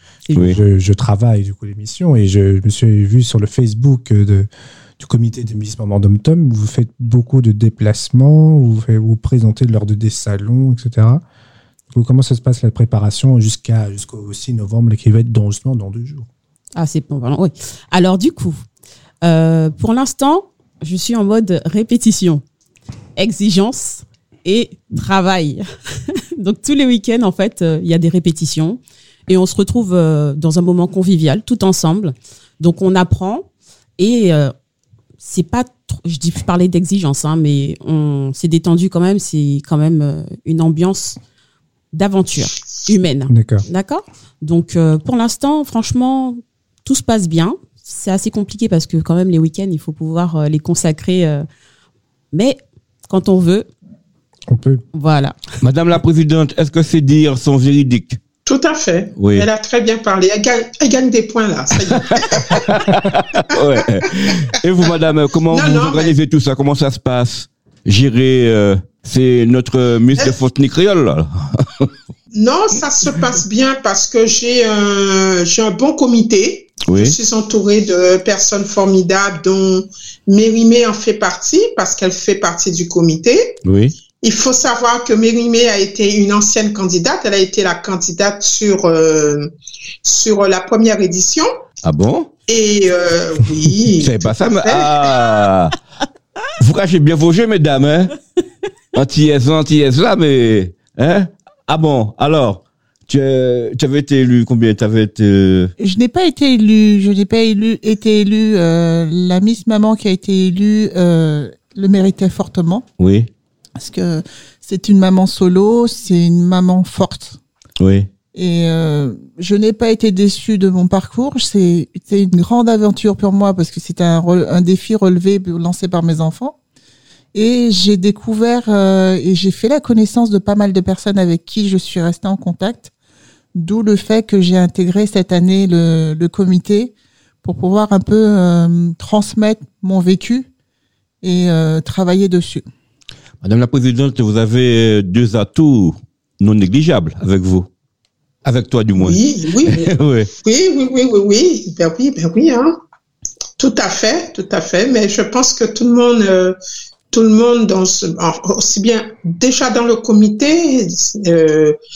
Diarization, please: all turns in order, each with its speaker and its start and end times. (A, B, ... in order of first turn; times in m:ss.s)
0:00.2-0:00.6 A
0:00.3-0:00.6 B
0:00.4-0:04.5 C
0:05.0-0:11.2 C
0:11.9-0:16.3 C
0:16.8-0:18.6 A
0:19.2-0:22.4 A
0:23.2-0:33.4 A
0:34.0-0:34.5 A
0:35.2-0:41.2 A
0:41.9-0:51.4 A
0:43.3-0:43.6 C
0:52.3-0:53.7 A
0:54.5-0:54.8 C
0:54.9-0:55.4 A
0:55.6-0:58.2 B
0:58.4-1:02.9 D
0:59.2-0:59.5 B
1:01.9-1:11.9 B
1:05.5-1:06.2 D
1:12.3-1:23.6 D
1:16.9-1:17.2 B
1:23.6-1:23.9 B
1:24.2-1:29.5 D
1:30.0-1:31.5 D
1:31.8-1:32.3 B
1:32.5-1:35.0 D
1:34.0-1:35.8 B
1:36.6-1:38.2 B
1:38.9-1:45.7 B
1:45.8-1:52.8 E
1:53.0-1:53.3 B
1:53.8-1:57.4 E
1:57.8-1:58.1 B
1:58.3-2:06.6 E
2:07.3-2:12.9 E
2:13.5-2:20.5 E
2:21.2-2:22.6 E
2:23.4-2:27.7 B
2:28.4-2:30.3 B
2:29.0-2:29.9 D
2:30.4-2:32.8 D
2:33.6-2:36.6 D
2:37.1-2:41.8 D